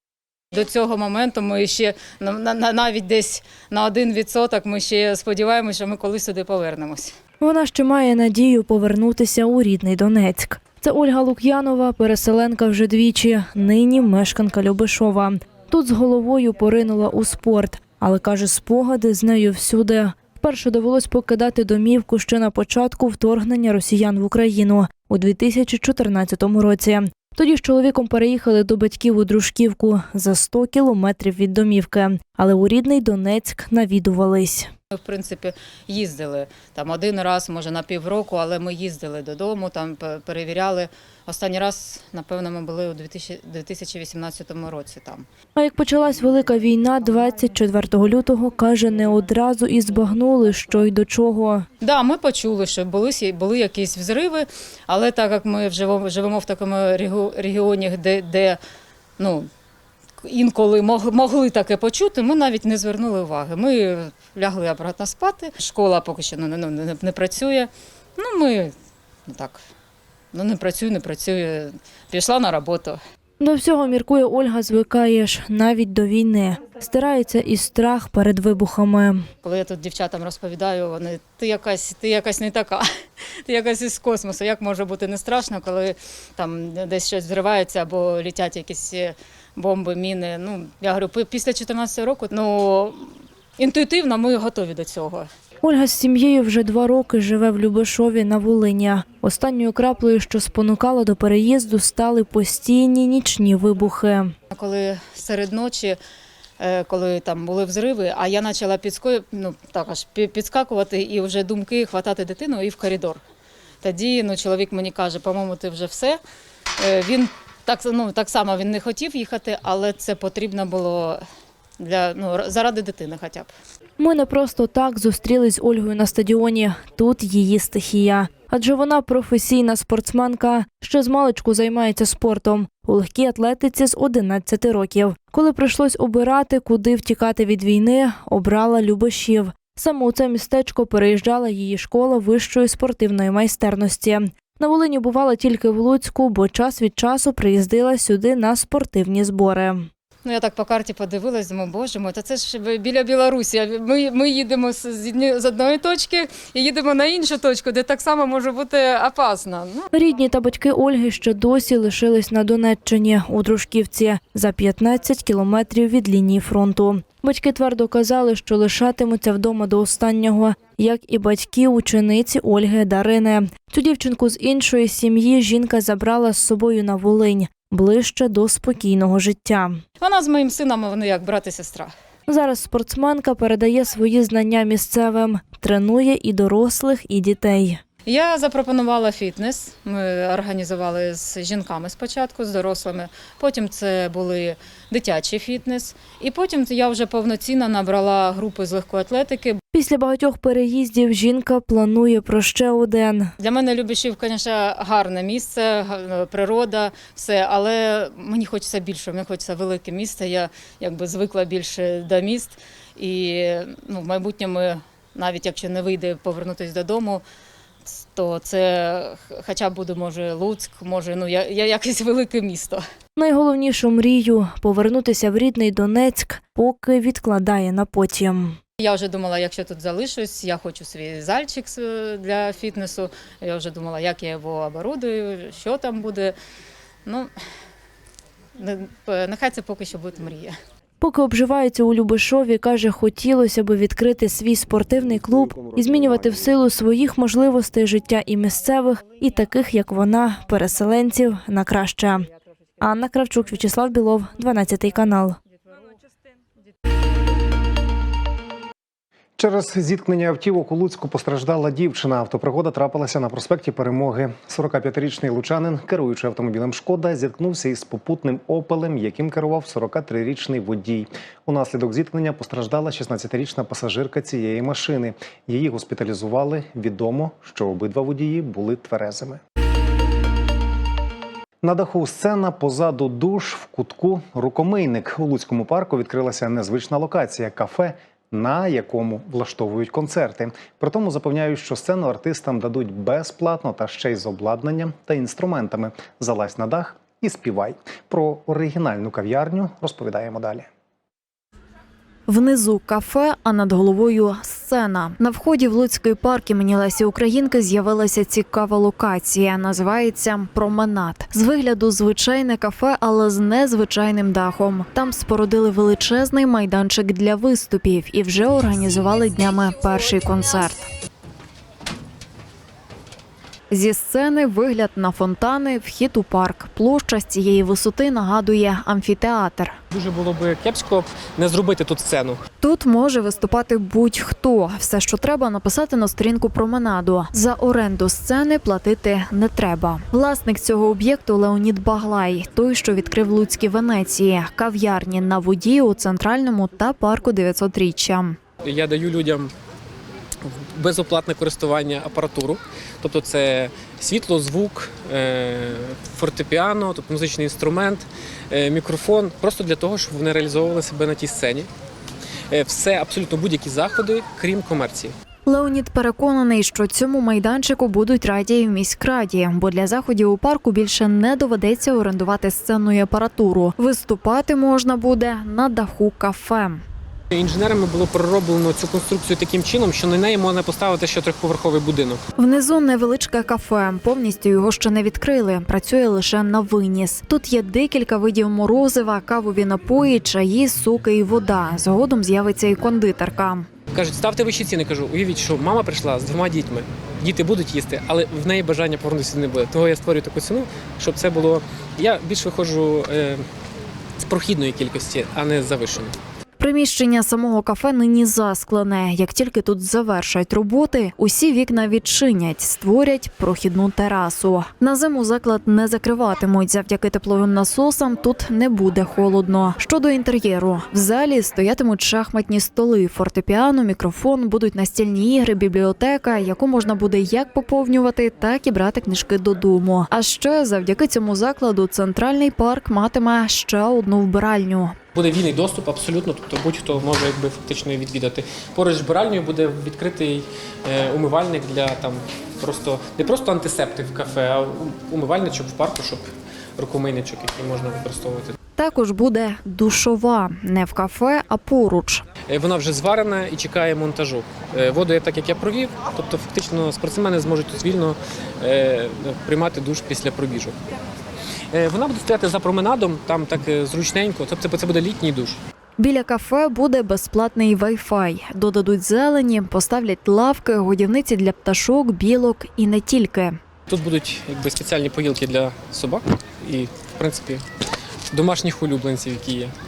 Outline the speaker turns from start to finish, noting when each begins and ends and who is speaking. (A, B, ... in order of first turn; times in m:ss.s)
0:00.5-0:07.2 A
0:07.4-0:34.7 B
0:34.9-0:45.3 A
0:45.6-0:51.7 B
0:51.8-0:58.6 A
0:59.2-0:59.5 A
1:00.2-1:08.7 A
1:09.3-1:09.6 A
1:10.3-1:13.0 A
1:13.4-1:19.3 B
1:19.4-1:22.8 A
1:23.4-1:35.3 A
1:35.6-1:44.3 B
1:44.5-1:46.0 A
1:46.6-1:53.2 A
1:53.8-1:56.2 A
1:56.8-2:01.2 A
2:01.8-2:03.5 A
2:04.0-2:29.9 B
2:30.2-2:39.9 A
2:39.9-2:59.8 B
3:00.0-3:01.9 A
3:02.3-3:07.8 B
3:08.0-3:19.6 A
3:19.7-3:23.3 B
3:23.4-3:37.2 A
3:38.1-3:42.8 A
3:43.2-3:48.6 B
3:48.8-3:56.4 A
3:57.0-3:57.3 A
3:58.6-4:00.5 A
4:01.0-4:12.3 B
4:12.8-4:15.4 B
4:19.4-4:39.4 C
4:41.6-5:00.7 C
5:02.3-5:20.9 D
5:23.7-5:29.8 D
5:29.9-5:32.4 E
5:32.6-5:48.4 D
5:48.7-5:49.5 E
5:50.5-6:01.7 E
6:02.5-6:05.2 E
6:05.5-6:16.8 D
6:17.3-6:22.2 E
6:22.4-6:33.7 D
6:33.9-6:43.4 E
6:44.2-6:46.2 E
6:46.6-7:14.9 D
7:15.2-7:28.5 E
7:28.8-7:32.2 D
7:32.5-7:40.8 E
7:41.7-7:45.6 E
7:46.0-7:53.6 D
7:53.9-7:57.6 E
7:58.3-7:59.7 E